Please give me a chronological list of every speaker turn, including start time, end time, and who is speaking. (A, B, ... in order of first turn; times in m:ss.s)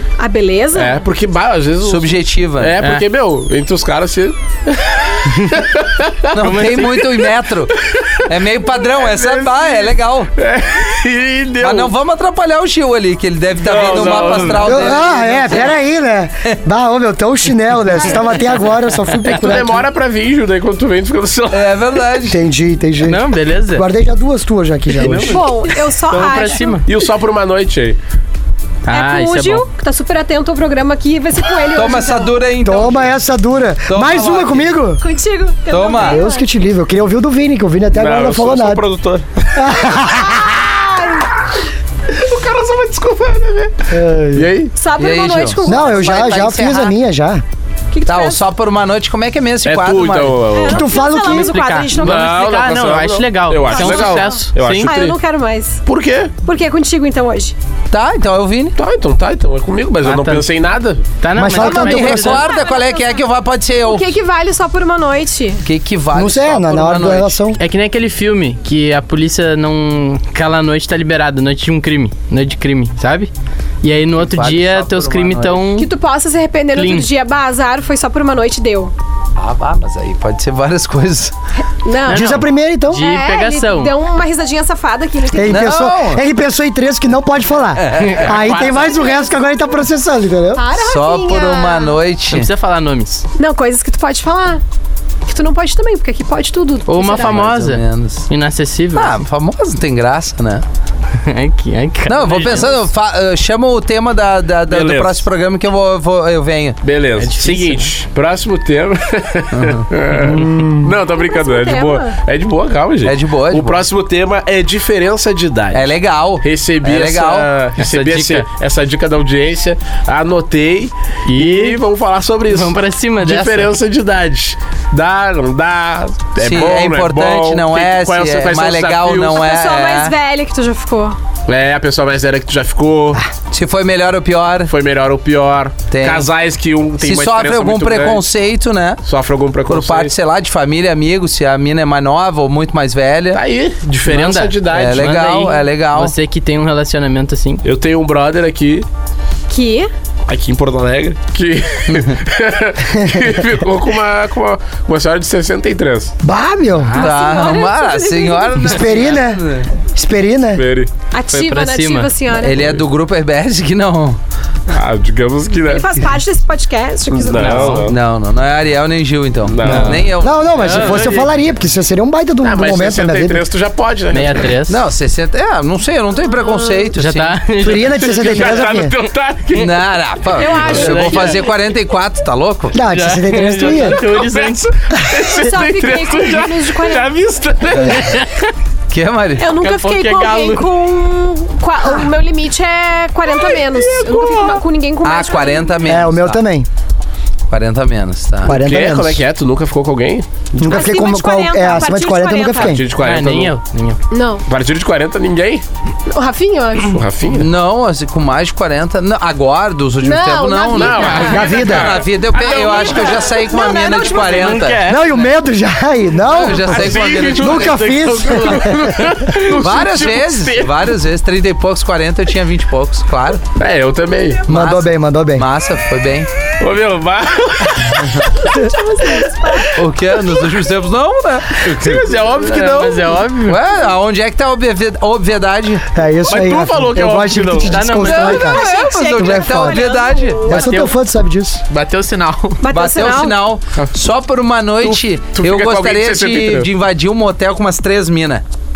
0:00.2-0:01.0 A
0:00.7-0:06.6 B
0:01.8-0:02.8 C
0:06.3-0:10.3 C
0:06.4-0:07.1 D
0:08.8-0:11.9 B
0:11.6-0:15.7 C
0:13.6-0:15.0 B
0:13.8-0:14.6 D
0:14.6-0:19.9 E
0:19.3-0:21.7 B
0:21.5-0:22.4 C
0:22.3-0:25.4 E
0:23.0-0:23.8 D
0:25.0-0:25.4 D
0:25.2-0:26.8 A
0:26.0-0:26.9 D
0:26.9-0:28.0 B
0:28.9-0:29.7 D
0:28.9-0:32.3 A
0:31.7-0:33.2 C
0:32.6-0:35.0 E
0:33.9-0:34.7 C
0:35.0-0:36.4 A
0:35.7-0:36.2 C
0:35.9-0:38.8 E
0:37.9-0:39.7 B
0:39.5-0:40.6 E
0:40.4-0:41.2 A
0:42.1-0:43.8 B
0:43.9-0:44.5 E
0:44.3-0:44.7 B
0:44.7-0:46.3 A
0:45.0-0:46.9 C
0:45.6-0:47.4 E
0:47.9-0:48.4 A
0:48.1-0:50.4 C
0:49.6-0:50.9 B
0:50.5-0:52.5 A
0:50.7-0:51.5 E
0:51.2-0:54.9 D
0:52.0-0:55.2 B
0:53.7-0:55.8 A
0:55.9-0:56.3 B
0:56.4-0:57.6 A
0:57.9-0:58.8 C
0:58.8-1:01.0 B
1:00.0-1:00.5 D
1:01.2-1:02.4 D
1:01.3-1:02.3 E
1:01.6-1:03.2 A
1:01.6-1:04.1 C
1:03.8-1:05.6 A
1:05.6-1:07.4 C
1:06.1-1:07.6 E
1:07.6-1:13.3 D
1:13.8-1:15.9 D
1:14.2-1:15.6 C
1:15.8-1:18.9 A
1:16.7-1:17.1 D
1:19.4-1:21.3 C
1:21.8-1:25.7 A
1:22.1-1:23.9 D
1:22.1-1:23.0 E
1:25.3-1:30.6 E
1:25.4-1:26.2 C
1:27.7-1:28.8 C
1:28.0-1:28.9 D
1:28.8-1:29.3 A
1:30.6-1:32.0 A
1:30.8-1:32.5 C
1:32.3-1:33.2 D
1:33.4-1:34.6 A
1:35.3-1:37.5 A
1:36.9-1:39.2 D
1:37.2-1:38.3 C
1:38.9-1:40.6 C
1:41.2-1:42.8 D
1:42.1-1:46.8 C
1:44.7-1:45.2 B
1:46.8-2:09.4 B
1:47.2-1:47.9 D
1:49.5-1:49.8 C
1:50.2-1:50.9 E
1:51.2-1:52.2 A
1:53.0-1:53.8 C
1:55.7-1:57.5 C
1:57.8-1:58.5 D
2:01.3-2:01.8 D
2:02.5-2:03.7 D
2:06.4-2:10.1 C
2:09.3-2:11.2 A
2:11.5-2:13.2 B
2:13.5-2:14.7 C
2:14.7-2:18.2 B
2:15.9-2:16.3 C
2:17.0-2:19.0 C
2:19.0-2:20.1 B
2:19.7-2:23.4 C
2:23.3-2:25.1 B
2:24.0-2:27.6 D
2:24.7-2:26.1 C
2:27.6-2:28.9 B
2:29.5-2:29.9 A
2:30.3-2:36.1 B
2:31.9-2:32.2 C
2:33.0-2:33.3 E
2:36.2-2:36.9 E
2:36.9-2:38.8 A
2:36.9-2:39.7 C
2:38.7-2:40.6 E
2:40.6-2:40.9 B
2:41.1-2:42.6 A
2:41.3-2:42.1 D
2:42.3-2:44.2 C
2:44.7-2:45.9 B
2:45.6-2:47.8 A
2:47.1-2:48.0 B
2:47.3-2:47.9 D
2:47.9-2:51.2 C
2:49.4-2:50.1 B
2:49.6-2:51.3 D
2:50.2-2:53.4 E
2:52.4-2:54.5 B
2:54.1-2:54.8 D
2:54.7-2:57.3 C
2:56.4-2:56.8 A
2:56.9-2:58.5 D
2:57.6-2:58.9 E
2:57.7-3:00.8 B
2:59.5-3:02.8 C
3:00.3-3:01.5 A
3:00.5-3:01.4 D
3:02.7-3:04.0 E
3:02.8-3:04.7 D
3:03.7-3:08.3 B
3:05.3-3:07.1 A
3:08.0-3:08.5 D
3:08.9-3:09.5 C
3:09.4-3:15.8 A
3:09.5-3:10.7 D
3:13.3-3:14.6 B
3:15.0-3:16.4 C
3:15.9-3:16.7 E
3:17.5-3:18.6 C
3:18.4-3:19.2 E
3:18.5-3:20.8 B
3:20.6-3:22.8 E
3:20.7-3:22.8 A
3:22.6-3:23.6 B
3:23.0-3:24.0 D
3:24.1-3:24.4 A
3:24.4-3:25.6 B
3:26.1-3:27.0 A
3:26.9-3:27.5 B
3:27.3-3:34.9 C
3:30.0-3:31.4 A
3:30.7-3:33.2 B
3:31.2-3:32.0 E
3:32.3-3:34.7 A
3:34.2-3:35.3 D
3:34.9-3:39.3 E
3:36.3-3:37.8 C
3:36.6-3:40.8 B
3:39.3-3:43.4 C
3:43.6-3:44.4 B
3:44.5-3:45.4 E
3:44.5-3:46.3 C
3:46.6-3:48.7 B
3:48.4-3:49.8 A
3:49.7-3:52.9 C
3:51.6-3:53.1 B
3:52.6-3:53.6 D
3:53.4-3:55.8 C
3:55.9-3:59.9 E
3:56.3-3:58.0 B
3:57.6-3:58.7 D
3:58.0-4:00.6 A
3:58.1-4:00.5 C
4:00.5-4:01.0 D
4:00.5-4:01.6 E
4:01.7-4:02.6 D
4:02.6-4:03.4 A
4:02.7-4:08.4 C
4:04.8-4:06.7 B